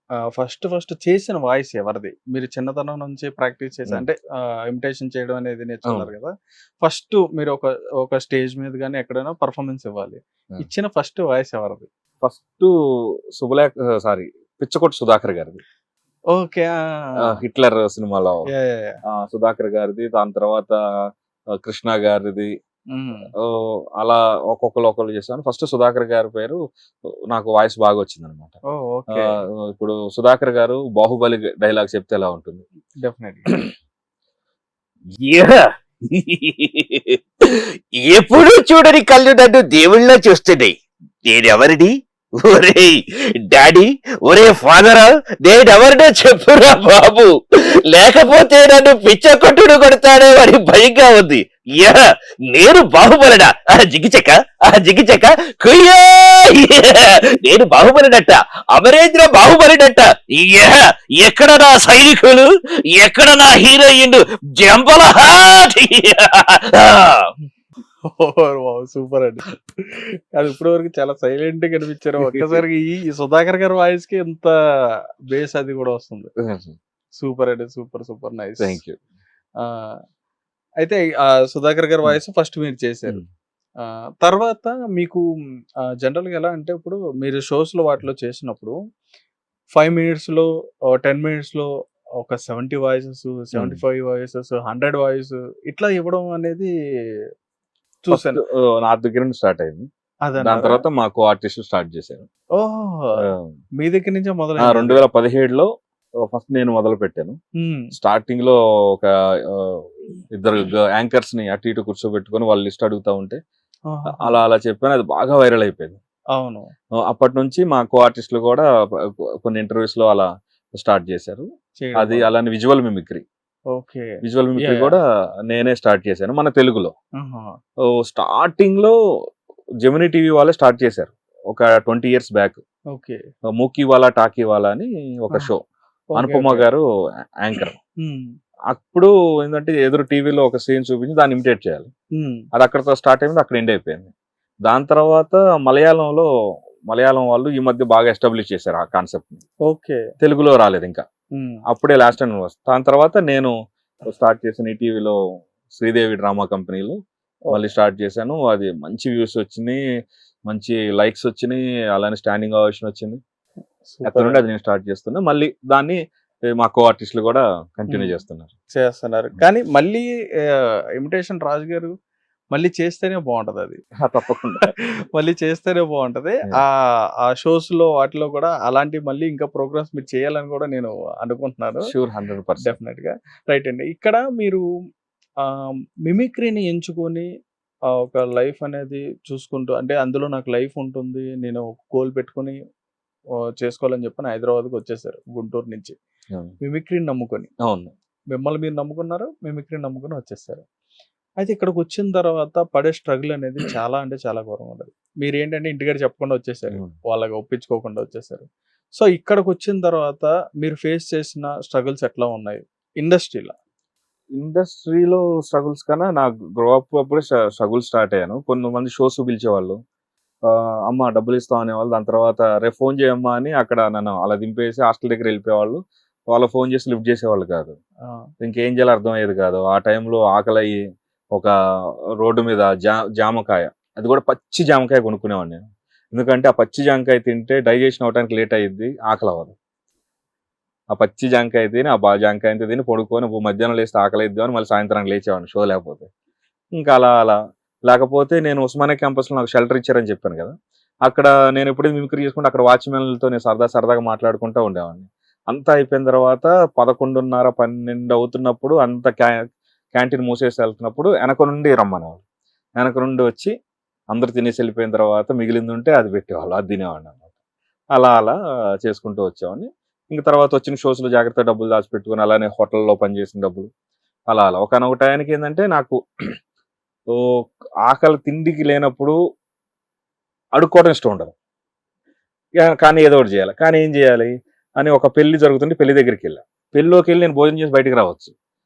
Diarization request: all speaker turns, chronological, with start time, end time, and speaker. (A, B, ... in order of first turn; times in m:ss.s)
0:00.4-0:11.9 A
0:12.2-0:12.7 B
0:13.4-0:15.6 B
0:16.3-0:17.3 A
0:17.2-0:18.4 B
0:18.5-0:19.0 A
0:19.1-0:20.8 B
0:21.6-0:22.5 B
0:22.9-0:23.3 A
0:23.4-0:26.6 B
0:27.3-0:28.6 B
0:28.7-0:29.4 A
0:29.2-0:32.6 B
0:33.0-0:33.6 A
0:35.2-1:07.3 C
1:08.1-1:09.5 A
1:10.3-1:14.5 A
1:15.3-1:16.3 A
1:16.4-1:16.8 B
1:17.2-1:18.8 A
1:18.6-1:19.0 B
1:19.6-1:19.9 A
1:20.8-1:23.2 A
1:23.8-1:25.2 A
1:26.0-1:28.8 A
1:29.8-1:30.5 A
1:31.0-1:31.7 A
1:32.2-1:36.7 A
1:33.6-1:33.8 B
1:38.0-1:38.4 A
1:38.1-1:39.9 B
1:40.3-1:40.8 A
1:40.4-1:42.3 B
1:42.6-1:43.2 A
1:43.2-1:43.5 B
1:43.8-1:45.0 A
1:44.6-1:45.7 B
1:46.3-1:47.4 B
1:47.6-1:47.9 A
1:48.0-1:53.4 B
1:53.9-1:54.4 A
1:54.2-1:56.0 B
1:56.4-1:56.7 A
1:57.0-1:58.7 B
1:59.4-2:03.2 B
2:01.8-2:02.3 A
2:03.7-2:05.0 A
2:04.2-2:06.9 B
2:07.2-2:07.4 A
2:08.0-2:09.0 B
2:09.8-2:12.6 B
2:12.9-2:13.2 A
2:13.5-2:15.6 B
2:16.1-2:16.7 A
2:16.2-2:16.8 B
2:17.4-2:17.8 B
2:18.0-2:18.3 A
2:18.7-2:21.9 B
2:22.2-2:22.4 A
2:22.5-2:24.1 B
2:24.6-2:26.3 B
2:26.9-2:29.4 B
2:29.7-2:30.0 A
2:30.2-2:31.0 B
2:31.4-2:31.6 A
2:31.7-2:33.5 B
2:34.1-2:35.2 B
2:35.7-2:37.0 B
2:37.5-2:39.8 B
2:40.5-2:43.2 B
2:43.9-2:44.4 A
2:44.0-2:46.0 B
2:46.5-2:48.5 B
2:47.9-2:48.2 A
2:48.8-2:51.9 A
2:52.5-2:53.8 A
2:54.0-2:54.6 B
2:54.6-2:56.7 A
2:57.2-3:01.9 A
3:01.8-3:02.8 B
3:02.6-3:04.6 A
3:06.1-3:07.3 A
3:08.0-3:12.6 A
3:13.6-3:16.0 A
3:16.6-3:17.5 A
3:17.6-3:17.9 B
3:18.3-3:20.6 A
3:21.4-3:33.6 A
3:34.4-3:39.8 B
3:40.5-3:47.8 B
3:48.4-3:50.8 B
3:52.2-3:55.6 B
3:56.1-3:59.5 B
4:00.9-4:06.1 B
4:06.8-4:10.5 B
4:11.1-4:19.4 B
4:19.9-4:22.2 B
4:22.8-4:23.5 B
4:24.1-4:27.2 B
4:28.0-4:33.7 B
4:34.3-4:36.0 B
4:37.1-4:39.2 B
4:40.6-4:41.3 B
4:42.6-4:48.3 B